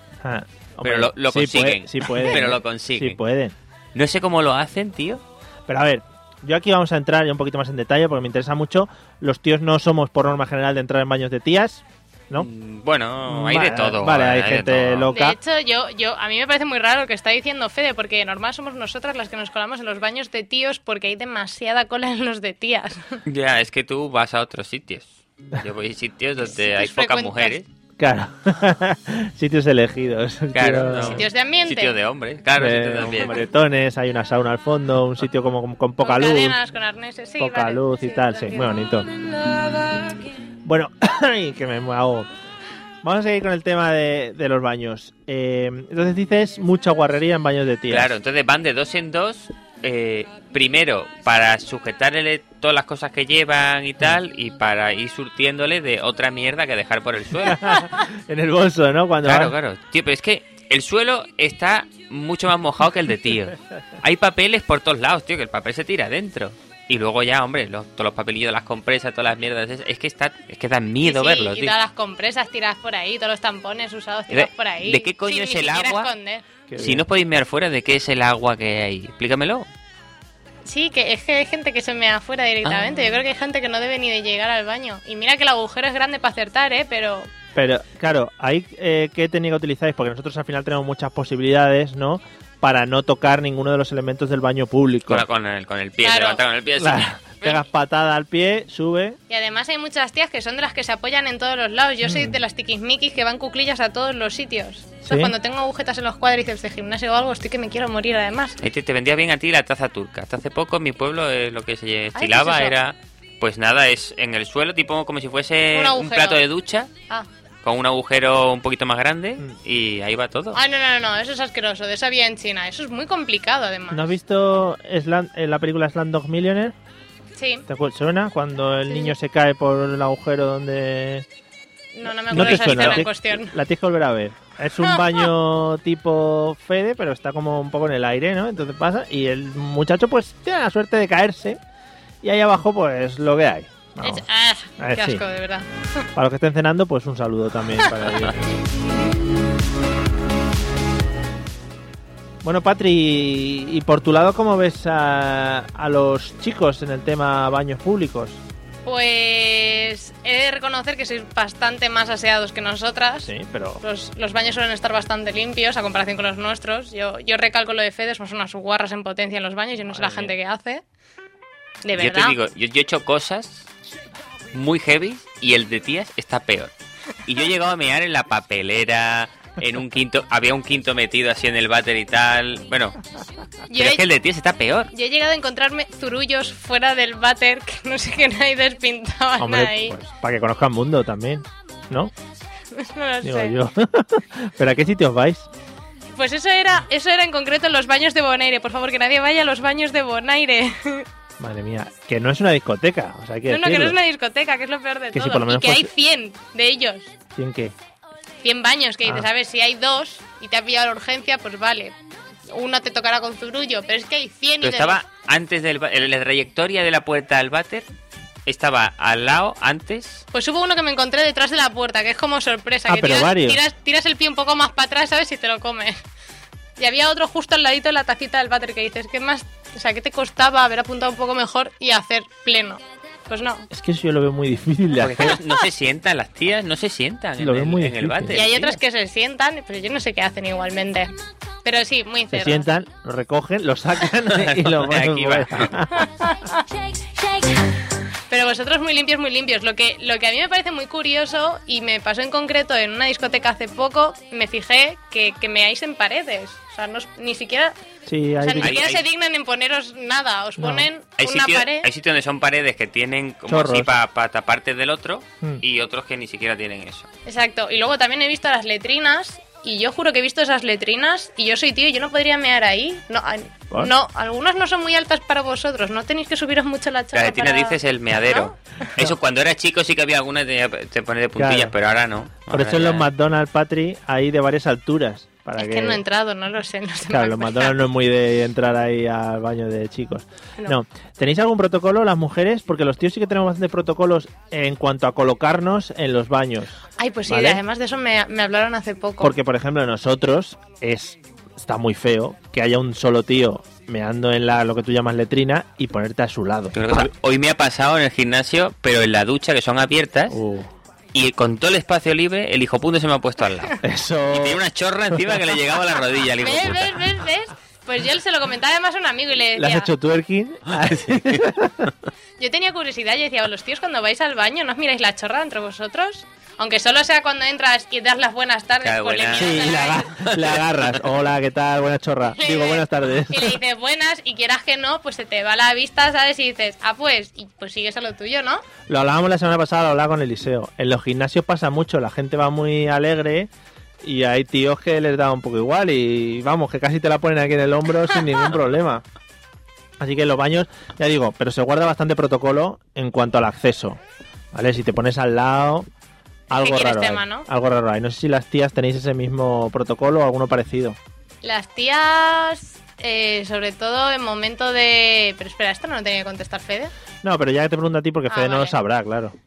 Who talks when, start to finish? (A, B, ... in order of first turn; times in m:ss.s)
0:00.2-0:03.6 A
0:00.8-0:03.2 B
0:03.9-0:05.2 B
0:05.7-0:12.5 A
0:12.3-0:15.1 B
0:13.2-0:15.4 A
0:15.1-0:23.2 C
0:23.2-0:27.7 B
0:26.5-0:27.6 C
0:28.0-0:31.2 A
0:30.5-0:33.4 B
0:31.1-0:31.9 C
0:32.6-0:36.6 A
0:36.0-0:38.7 C
0:37.4-0:39.1 A
0:40.6-0:42.3 A
0:43.0-0:48.1 A
0:47.9-0:57.9 B
0:57.4-0:59.6 A
0:59.2-1:11.8 B
1:11.0-1:16.4 C
1:14.3-1:16.1 B
1:16.7-1:17.0 A
1:16.8-1:19.6 B
1:20.6-1:27.3 C
1:22.6-1:23.2 B
1:27.5-1:35.2 A
1:35.1-1:37.6 B
1:36.0-1:36.4 C
1:36.8-1:39.2 A
1:39.3-1:48.6 C
1:42.0-1:42.4 A
1:45.0-1:45.3 A
1:48.6-1:56.9 B
1:52.1-1:52.8 C
1:55.7-1:56.4 C
1:57.6-2:00.6 B
2:00.5-2:04.1 C
2:03.9-2:06.7 A
2:07.4-2:07.7 C
2:07.7-2:11.2 A
2:11.9-2:13.5 C
2:12.1-2:21.6 A
2:12.3-2:13.0 B
2:14.8-2:15.2 C
2:22.2-2:24.2 A
2:24.0-2:25.6 C
2:24.8-2:25.2 A
2:26.1-2:28.4 A
2:32.4-2:38.4 A
2:38.8-2:43.3 C
2:43.2-2:43.8 A
2:43.8-2:50.8 C
2:49.9-2:50.3 A
2:51.8-2:52.4 C
2:51.9-2:53.7 B
2:54.5-2:56.7 B
2:57.2-3:03.0 B
3:03.7-3:04.0 C
3:03.7-3:04.9 B
3:04.9-3:10.0 C
3:09.4-3:12.1 A
3:12.7-3:13.6 C
3:13.2-3:15.5 A
3:16.2-3:21.0 C
3:21.4-3:24.0 A
3:23.5-3:27.1 C
3:25.1-3:25.9 A
3:27.3-3:27.7 A
3:28.4-3:31.9 C
3:32.5-3:35.0 C
3:34.6-3:37.9 B
3:38.4-3:40.2 B
3:40.3-3:46.0 C
3:42.9-3:43.6 A
3:46.8-3:53.7 C
3:53.7-3:55.4 A
3:55.0-3:58.8 B
3:57.4-3:58.4 A
3:58.3-4:01.1 C
4:01.6-4:02.6 C
4:02.3-4:06.0 A
4:04.3-4:05.7 B
4:05.9-4:06.6 C
4:08.3-4:17.7 C
4:18.0-4:18.8 A
4:18.4-4:21.9 C
4:18.6-4:19.0 B
4:20.6-4:20.9 A
4:21.2-4:27.1 B
4:23.5-4:24.0 A
4:27.2-4:38.9 C
4:37.1-4:43.1 B
4:41.4-4:41.7 A
4:42.5-4:46.0 A
4:45.6-4:47.8 C
4:47.1-4:56.8 A
4:57.0-4:59.4 C
4:57.3-4:57.6 A
4:59.2-5:07.1 A
5:06.7-5:10.4 B
5:10.3-5:10.7 A
5:11.1-5:17.0 B
5:13.8-5:14.6 A
5:16.4-5:19.9 C
5:19.6-5:21.9 A
5:20.7-5:21.4 B
5:22.4-5:30.2 C
5:28.8-5:29.6 B
5:29.3-5:33.6 A
5:30.2-5:31.0 B
5:32.3-5:38.6 C
5:38.9-5:43.5 A
5:44.0-5:49.0 A
5:50.0-5:54.0 A
5:54.5-5:55.9 A
5:56.5-6:01.0 A
5:56.5-5:57.5 C
6:01.4-6:06.9 C
6:07.2-6:09.4 A
6:08.3-6:08.8 C